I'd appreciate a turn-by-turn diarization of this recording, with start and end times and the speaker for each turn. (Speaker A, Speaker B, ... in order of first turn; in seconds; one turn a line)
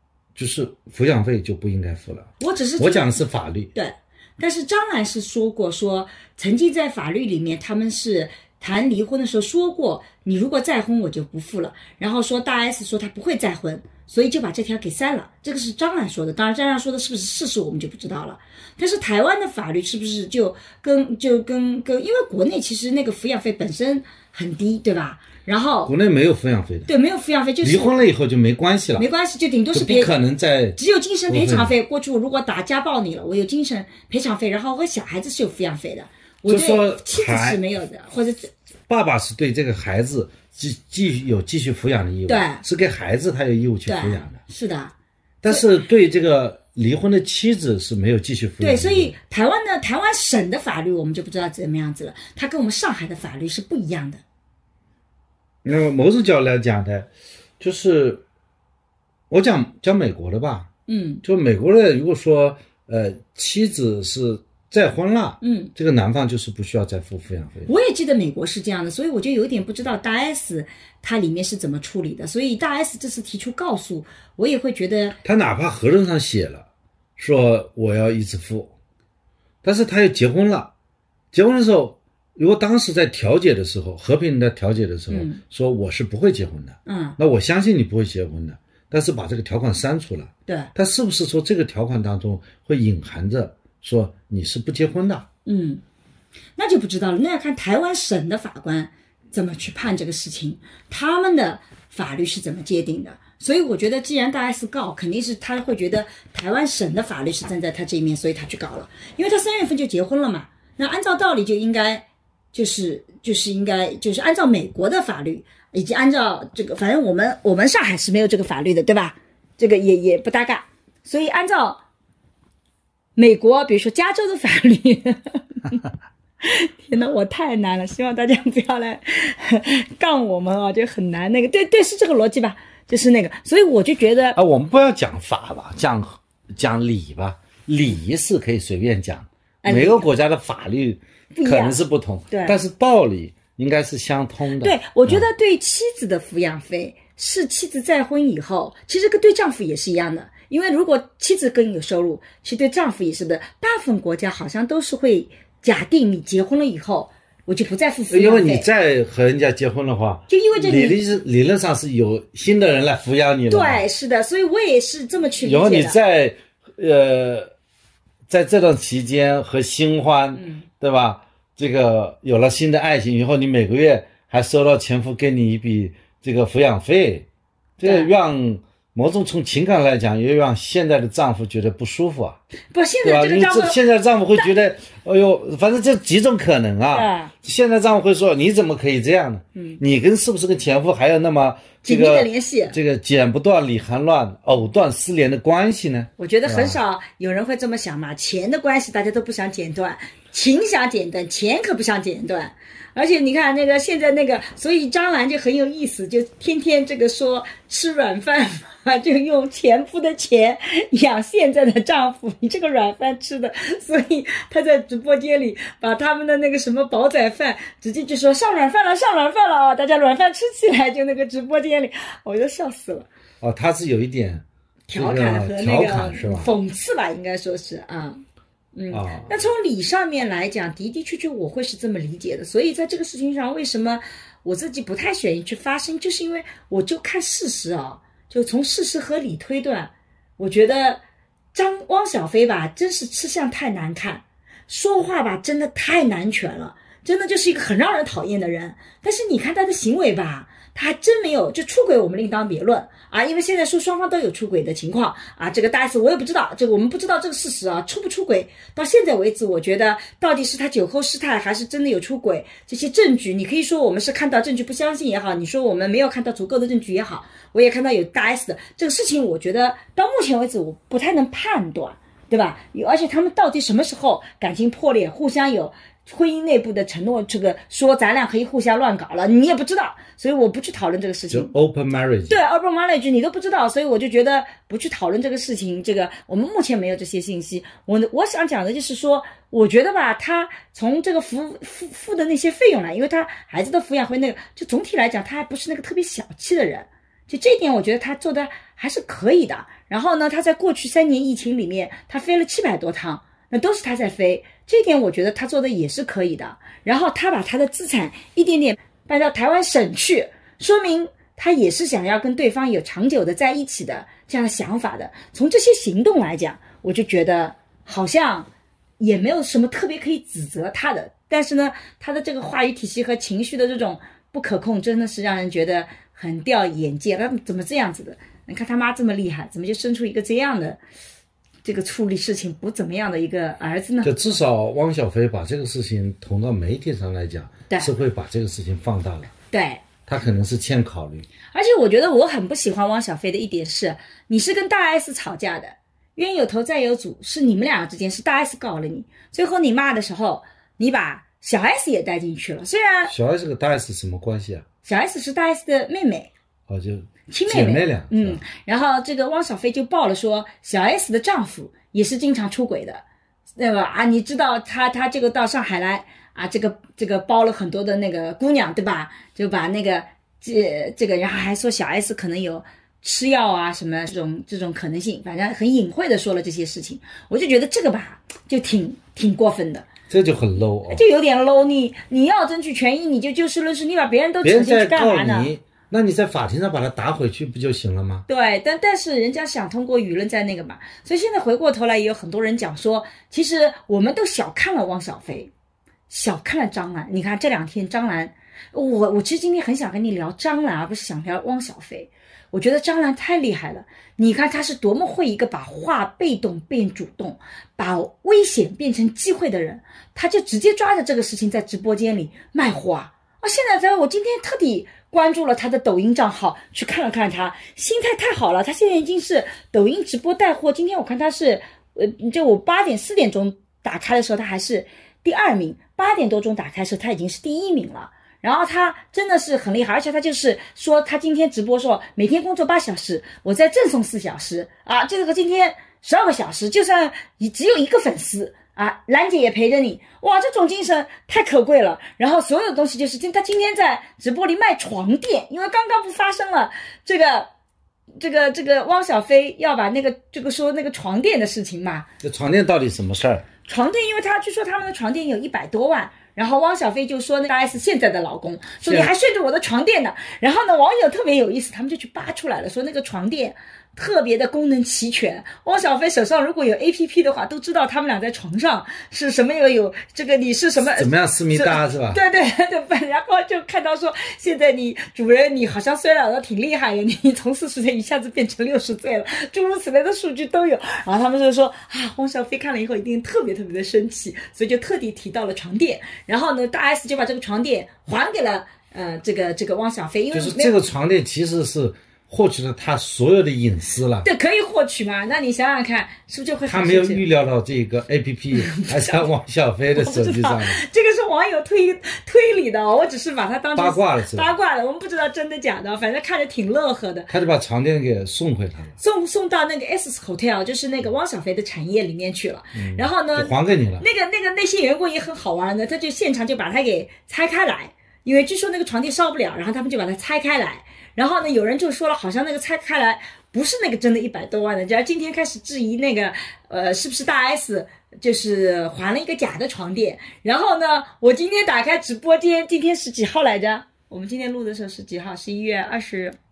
Speaker A: 0.3-3.7
Speaker B: 2.4-3.2
Speaker B: 3.8-25.9
Speaker A: 25.9-26.9
Speaker B: 26.9-27.9
Speaker A: 27.6-29.1
Speaker B: 29.0-30.1
Speaker A: 29.7-30.8
Speaker B: 30.8-38.5
Speaker A: 31.3-31.7
Speaker A: 36.5-37.6
Speaker A: 38.9-44.4
Speaker B: 42.3-42.6
Speaker B: 43.9-44.9
Speaker A: 45.4-49.1
Speaker B: 48.6-54.2
Speaker A: 55.6-58.2
Speaker A: 59.3-60.7
Speaker B: 60.9-61.2
Speaker A: 61.2-67.7
Speaker B: 65.4-65.7
Speaker B: 67.7-75.2
Speaker A: 75.2-76.7
Speaker A: 77.2-78.7
Speaker A: 79.6-80.7
Speaker A: 81.3-95.3
Speaker B: 85.1-85.4
Speaker B: 86.9-87.2
Speaker B: 90.5-90.7
Speaker B: 95.5-95.8
Speaker B: 96.6-121.8
Speaker B: 123.2-125.8
Speaker B: 126.4-134.4
Speaker A: 134.3-145.3
Speaker B: 139.6-140.1
Speaker B: 141.3-141.8
Speaker B: 142.3-142.6
Speaker B: 144.6-158.7
Speaker A: 158.1-163.8
Speaker B: 160.3-161.0
Speaker B: 163.5-166.0
Speaker A: 165.4-167.5
Speaker A: 168.3-177.3
Speaker B: 170.3-170.7
Speaker A: 177.8-182.4
Speaker B: 177.8-178.1
Speaker B: 182.7-183.8
Speaker A: 183.0-196.8
Speaker B: 186.9-187.3
Speaker B: 189.6-189.8
Speaker B: 191.8-192.8
Speaker B: 196.2-223.1
Speaker A: 223.4-226.5
Speaker B: 224.9-228.2
Speaker B: 228.8-241.0
Speaker A: 228.9-229.4
Speaker B: 241.5-281.5
Speaker A: 281.3-282.4
Speaker B: 282.3-318.5
Speaker B: 319.0-330.8
Speaker B: 331.6-334.2
Speaker A: 334.0-339.3
Speaker B: 339.5-339.8
Speaker A: 340.1-341.3
Speaker B: 341.5-353.1
Speaker A: 353.1-354.6
Speaker B: 354.8-356.3
Speaker A: 356.7-358.4
Speaker B: 357.3-363.0
Speaker B: 363.6-379.9
Speaker A: 380.1-381.0
Speaker B: 380.9-385.5
Speaker A: 384.4-388.2
Speaker B: 388.3-395.5
Speaker B: 396.1-447.5
Speaker B: 448.2-452.1
Speaker A: 452.2-453.4
Speaker B: 453.6-490.8
Speaker A: 458.8-459.1
Speaker A: 470.8-472.2
Speaker A: 490.3-494.3
Speaker B: 494.2-497.2
Speaker A: 496.6-500.8
Speaker B: 498.6-499.3
Speaker B: 499.9-507.3
Speaker A: 503.8-504.5
Speaker A: 507.3-509.0
Speaker B: 509.0-536.4
Speaker A: 512.8-514.1